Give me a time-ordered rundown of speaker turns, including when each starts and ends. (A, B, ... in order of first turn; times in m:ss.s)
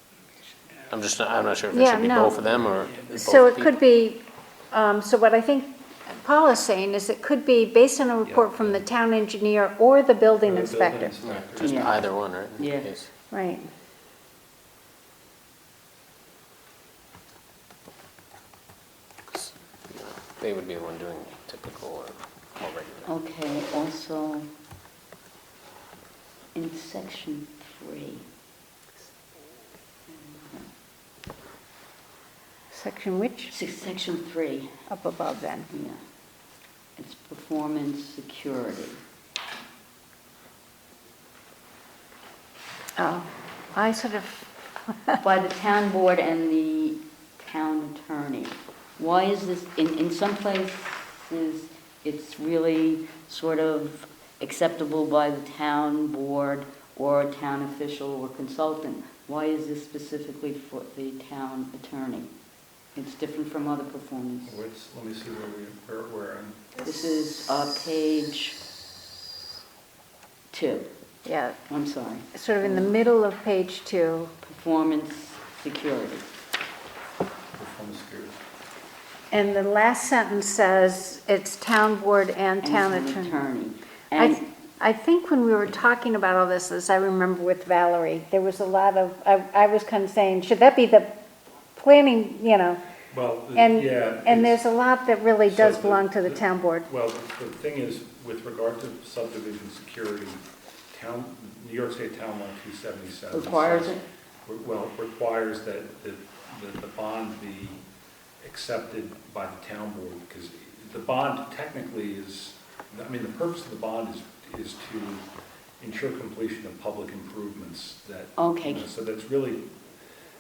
0:00.9-0:03.7 A
0:01.7-0:02.5 B
0:03.1-0:11.1 B
0:08.2-0:08.8 C
0:10.4-0:12.1 C
0:11.2-0:13.1 A
0:11.6-0:12.0 D
0:12.6-0:12.9 D
0:13.3-0:13.7 B
0:19.3-0:23.1 A
0:23.1-0:24.5 D
0:26.5-0:28.2 D
0:30.1-0:30.7 D
0:32.7-0:33.5 B
0:33.5-0:34.7 D
0:34.9-0:35.7 B
0:35.7-0:36.0 D
0:37.0-0:39.0 D
0:43.0-0:45.2 B
0:45.2-1:02.3 D
1:03.0-1:04.5 D
1:04.5-1:06.6 C
1:06.8-1:08.6 D
1:10.5-1:10.9 D
1:11.2-1:11.6 B
1:11.7-1:12.9 D
1:12.3-1:14.3 B
1:14.4-1:16.3 D
1:17.6-1:18.4 C
1:19.3-1:23.4 B
1:22.6-1:24.4 D
1:24.2-1:31.1 B
1:31.8-1:32.8 B
1:33.1-1:34.6 C
1:33.6-1:36.9 B
1:35.5-1:40.4 C
1:40.9-1:47.8 C
1:43.3-1:44.0 D
1:48.4-1:55.2 C
1:55.8-1:59.6 C
1:58.4-1:58.9 D